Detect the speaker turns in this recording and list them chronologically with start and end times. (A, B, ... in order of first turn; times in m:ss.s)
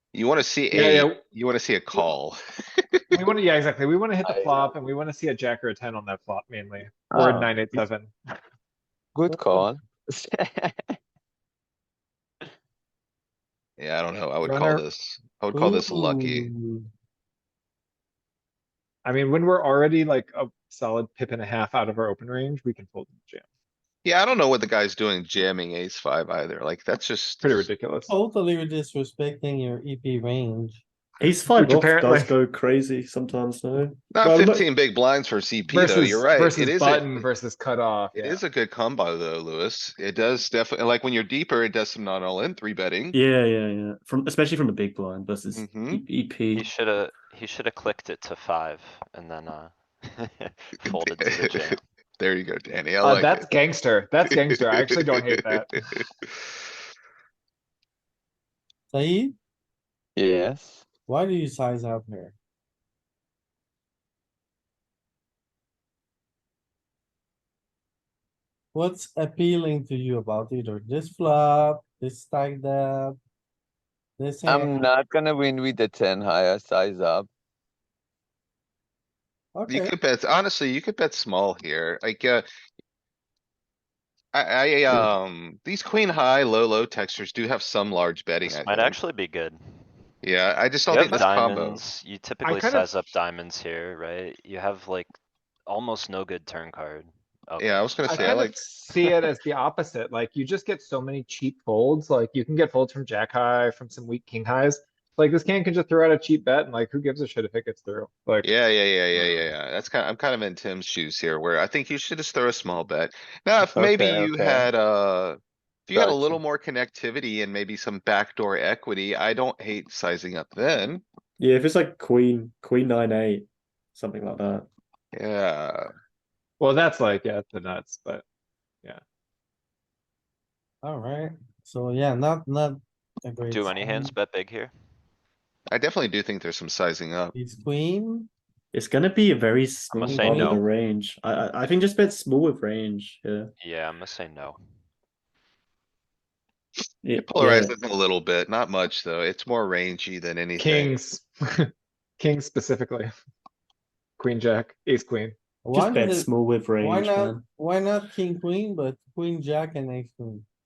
0:00.1-0:02.4 A
0:00.7-0:01.2 B
0:02.9-0:03.3 A
0:03.1-0:08.1 B
0:04.2-0:04.9 C
0:07.1-0:07.6 C
0:09.2-0:11.0 C
0:13.8-0:16.5 A
0:14.4-0:14.9 B
0:15.5-0:16.9 D
0:19.0-0:23.4 B
0:24.0-0:27.7 A
0:27.4-0:28.1 B
0:28.1-0:30.8 D
0:31.2-0:34.7 E
0:31.5-0:32.3 B
0:34.1-0:37.3 A
0:35.7-0:38.4 B
0:38.2-0:43.2 A
0:43.1-0:46.7 E
0:45.6-0:46.0 A
0:46.5-0:51.8 F
0:51.1-0:53.5 A
0:53.0-0:55.9 B
0:54.4-0:55.6 A
0:58.9-0:59.4 D
1:00.2-1:00.8 C
1:01.1-1:02.4 D
1:08.7-1:13.2 D
1:14.2-1:14.8 D
1:14.5-1:17.3 C
1:19.6-1:19.9 D
1:19.7-1:22.5 A
1:24.3-1:29.0 A
1:28.4-1:29.6 F
1:30.2-1:31.8 A
1:30.9-1:35.1 F
1:32.4-1:33.0 B
1:35.7-1:38.3 F
1:37.6-1:38.6 A
1:38.0-1:48.5 B
1:48.4-2:01.0 A
1:53.6-1:54.7 C
1:55.9-1:56.4 C
2:01.4-2:04.7 E
2:05.1-2:05.9 A
2:06.6-2:08.2 B
2:10.8-2:14.1 D
2:13.5-2:14.7 F
2:15.7-2:17.3 A
2:17.3-2:18.3 D
2:18.7-2:23.5 E
2:19.9-2:20.6 F
2:20.0-2:20.6 D
2:23.6-2:24.6 F
2:27.0-2:27.7 E
2:27.2-2:30.9 A
2:30.6-2:33.1 B
2:34.2-2:35.4 B
2:35.6-2:36.3 D
2:35.7-2:37.4 E
2:36.8-2:40.5 D